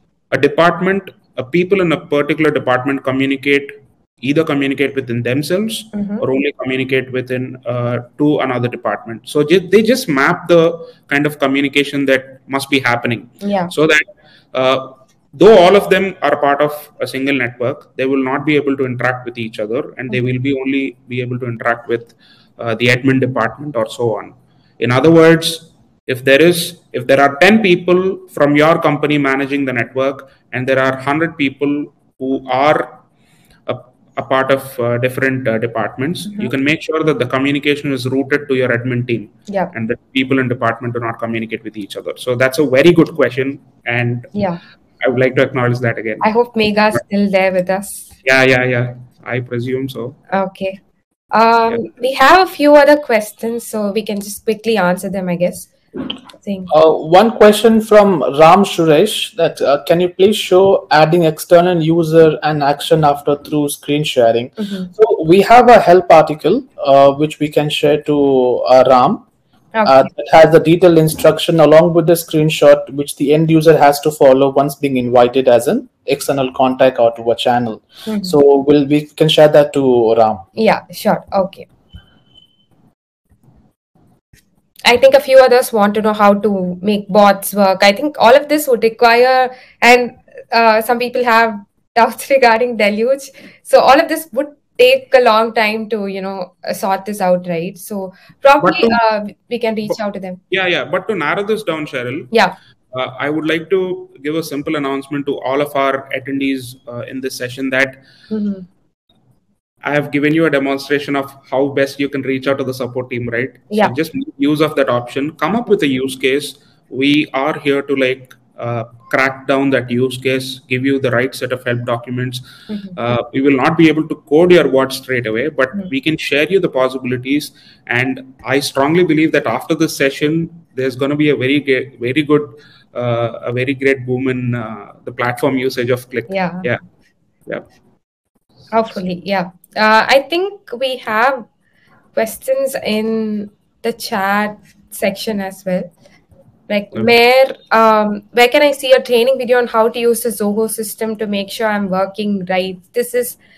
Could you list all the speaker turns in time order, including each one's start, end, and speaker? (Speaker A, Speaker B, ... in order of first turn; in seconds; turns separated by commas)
Speaker A: 0.3-33.0, Speaker B: 5.9-6.2, Speaker B: 13.4-13.7, Speaker A: 33.7-44.4, Speaker B: 44.4-44.6, Speaker A: 45.0-46.3, Speaker B: 46.2-48.1, Speaker A: 48.2-50.2, Speaker B: 50.3-50.8, Speaker B: 51.3-55.7, Speaker B: 56.4-56.7, Speaker C: 56.7-69.3, Speaker B: 64.6-64.9, Speaker B: 69.8-70.1, Speaker C: 69.9-80.5, Speaker B: 78.1-78.4, Speaker B: 80.6-81.7, Speaker B: 84.8-100.4, Speaker A: 98.6-99.0, Speaker A: 100.5-102.3, Speaker A: 102.9-108.0, Speaker B: 108.3-108.7, Speaker A: 109.8-122.4, Speaker B: 122.7-123.0, Speaker A: 123.0-136.8, Speaker B: 136.3-136.7, Speaker B: 138.7-141.5, Speaker B: 142.2-145.9, Speaker B: 146.7-153.4